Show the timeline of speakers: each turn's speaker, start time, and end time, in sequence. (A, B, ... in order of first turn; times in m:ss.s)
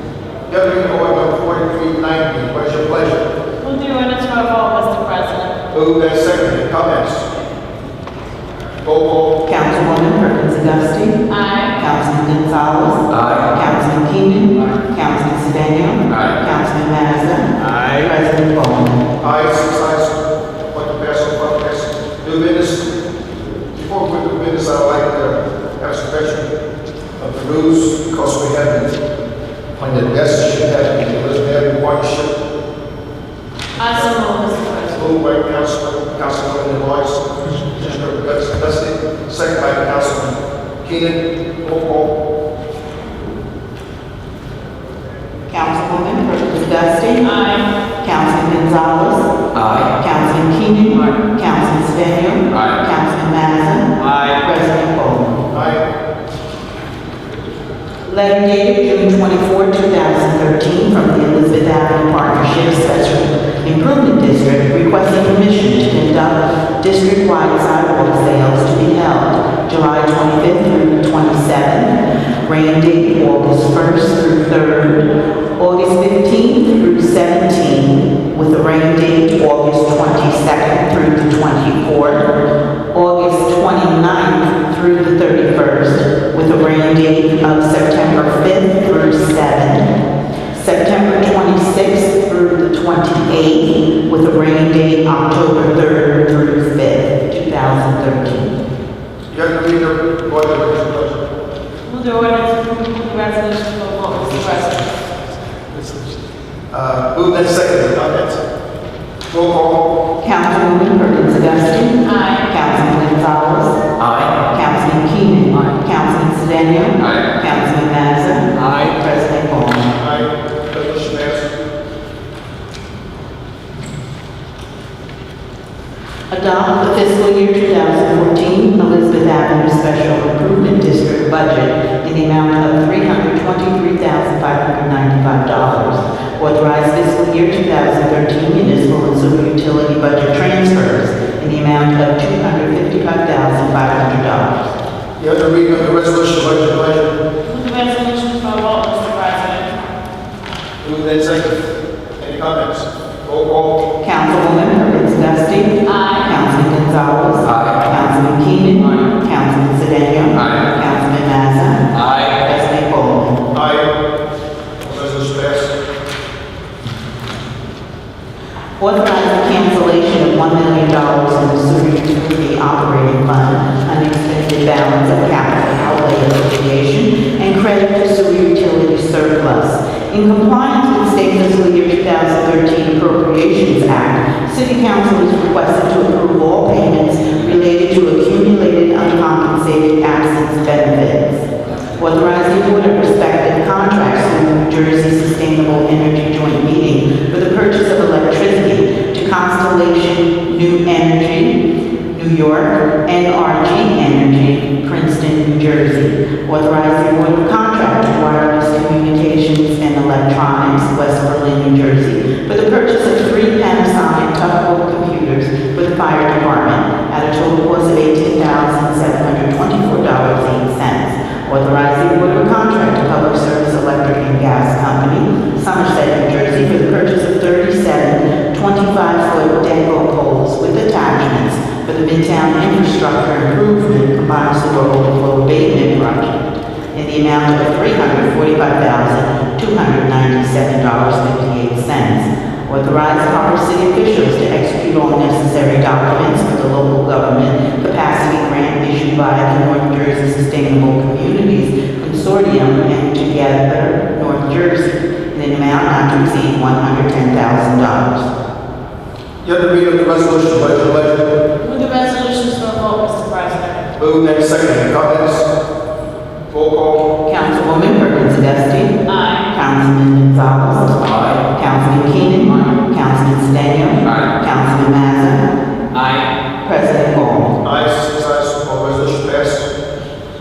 0:00.5-0:03.2 A
0:03.6-0:05.6 B
0:05.7-0:07.3 A
0:08.8-0:09.4 A
0:09.4-0:11.2 C
0:11.3-0:11.8 B
0:11.8-0:19.0 C
0:13.1-0:13.4 D
0:17.6-0:18.1 D
0:19.2-0:20.2 A
0:20.7-0:22.9 A
0:23.8-0:26.5 A
0:27.2-0:28.9 A
0:29.8-0:32.3 A
0:33.8-0:35.0 B
0:34.9-0:37.2 A
0:37.8-0:42.1 A
0:45.5-0:47.3 C
0:47.2-0:47.7 B
0:48.0-0:49.3 C
0:49.6-0:49.9 D
0:49.9-0:55.4 C
0:54.0-0:54.3 D
0:55.5-0:55.8 A
0:58.1-1:22.4 C
1:22.9-1:29.9 C
1:30.5-1:38.5 C
1:39.3-1:41.2 A
1:41.9-1:45.0 B
1:46.7-1:48.4 A
1:49.3-1:49.9 A
1:50.2-1:53.8 C
1:52.0-1:52.5 B
1:54.0-1:54.4 D
1:54.4-1:59.9 C
1:59.9-2:01.5 A
2:06.3-2:24.7 C
2:25.2-2:27.2 A
2:27.4-2:29.7 B
2:30.8-2:31.6 A
2:32.2-2:33.8 A
2:34.0-2:43.4 C
2:35.8-2:36.3 B
2:37.4-2:37.8 D
2:41.9-2:42.4 D
2:43.5-2:43.9 A
2:44.8-2:45.7 A
2:48.8-3:11.5 C
3:12.0-4:18.3 C
4:19.4-4:21.4 A
4:21.6-4:23.8 B
4:24.0-4:25.5 A
4:26.5-4:27.1 A
4:27.3-4:35.5 C
4:29.1-4:29.5 B
4:31.0-4:31.4 D
4:35.9-4:36.3 D
4:36.6-4:37.6 C
4:37.6-4:39.7 A